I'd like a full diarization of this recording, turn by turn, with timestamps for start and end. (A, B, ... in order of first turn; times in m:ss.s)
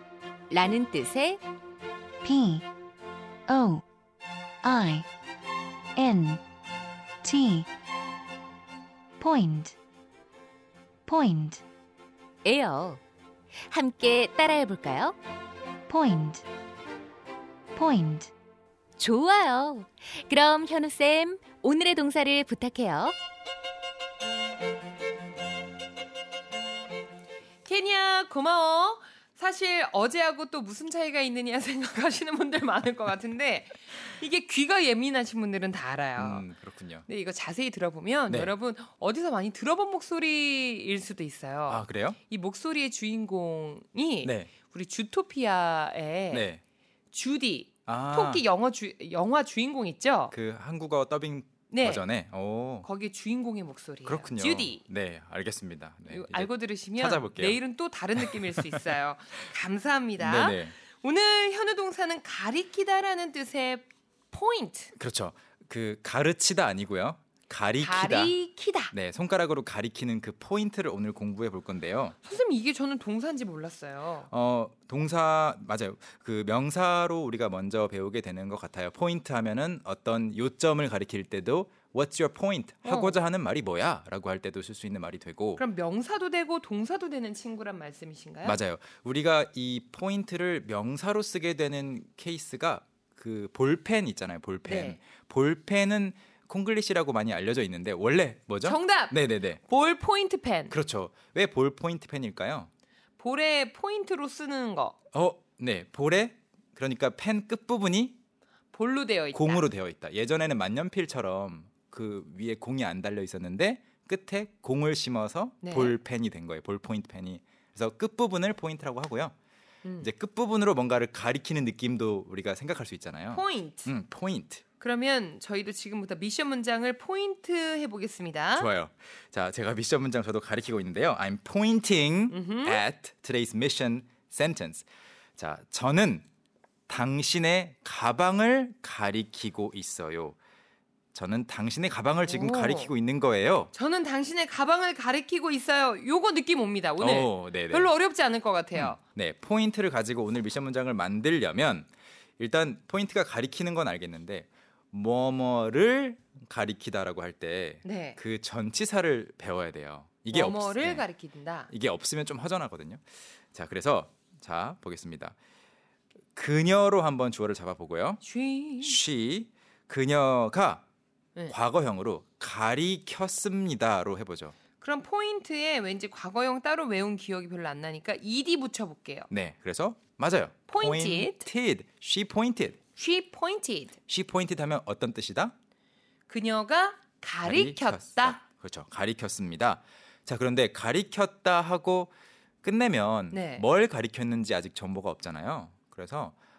0:00.5-0:01.4 A
0:02.2-0:02.6 B
0:03.5-0:03.8 B
0:04.6-0:05.1 B
0:06.0-0:06.4 B
0:07.2-0:07.7 B
0:09.2-0:09.7 B
0:11.1-0:11.6 B
0:12.4-0:13.0 A
0:13.7-0:15.2 A
0:15.9-0:16.4 B
0:17.7-0:18.3 B
0:19.0-0:23.1 A
0:27.6-0:36.5 C
0:36.2-0:37.1 D
0:37.1-0:46.5 C
0:41.7-0:42.2 D
0:44.2-0:44.5 D
0:46.3-0:46.6 D
0:47.1-0:50.3 C
0:47.9-0:48.4 D
0:50.3-0:52.9 D
0:51.7-0:52.0 C
0:52.8-0:54.8 C
0:54.0-0:57.6 D
0:56.1-1:04.9 C
0:58.2-0:58.9 D
1:00.2-1:00.7 D
1:05.0-1:08.3 D
1:07.8-1:08.9 C
1:08.9-1:12.2 D
1:12.2-1:14.3 C
1:14.3-1:25.6 D
1:22.8-1:23.2 C
1:25.6-1:28.6 C
1:28.4-1:39.6 D
1:34.6-1:35.0 C
1:38.6-1:40.8 C
1:40.7-1:42.7 D
1:43.2-1:44.9 C
1:45.1-1:48.2 D
1:48.7-1:49.6 C
1:49.3-1:59.3 D
1:55.6-1:56.0 C
2:00.0-2:04.6 D
2:03.3-2:03.9 C
2:04.8-2:08.7 C
2:08.5-2:14.8 D
2:12.3-2:12.8 C
2:15.4-2:16.2 D
2:16.9-2:20.4 D
2:21.1-2:23.7 D
2:22.2-2:22.9 C
2:23.7-2:29.0 C
2:27.0-2:27.9 D
2:28.7-2:41.0 D
2:37.8-2:38.2 C
2:40.3-2:41.7 C
2:41.7-2:45.3 D
2:46.3-2:48.2 D
2:48.2-2:49.0 C
2:48.8-2:50.8 D
2:51.5-2:54.5 D
2:54.8-2:59.3 C
2:59.3-3:02.8 D
3:00.7-3:01.4 C
3:03.0-3:03.9 C
3:04.1-3:05.5 D
3:06.3-3:08.4 C
3:07.4-3:16.3 D
3:13.3-3:13.6 C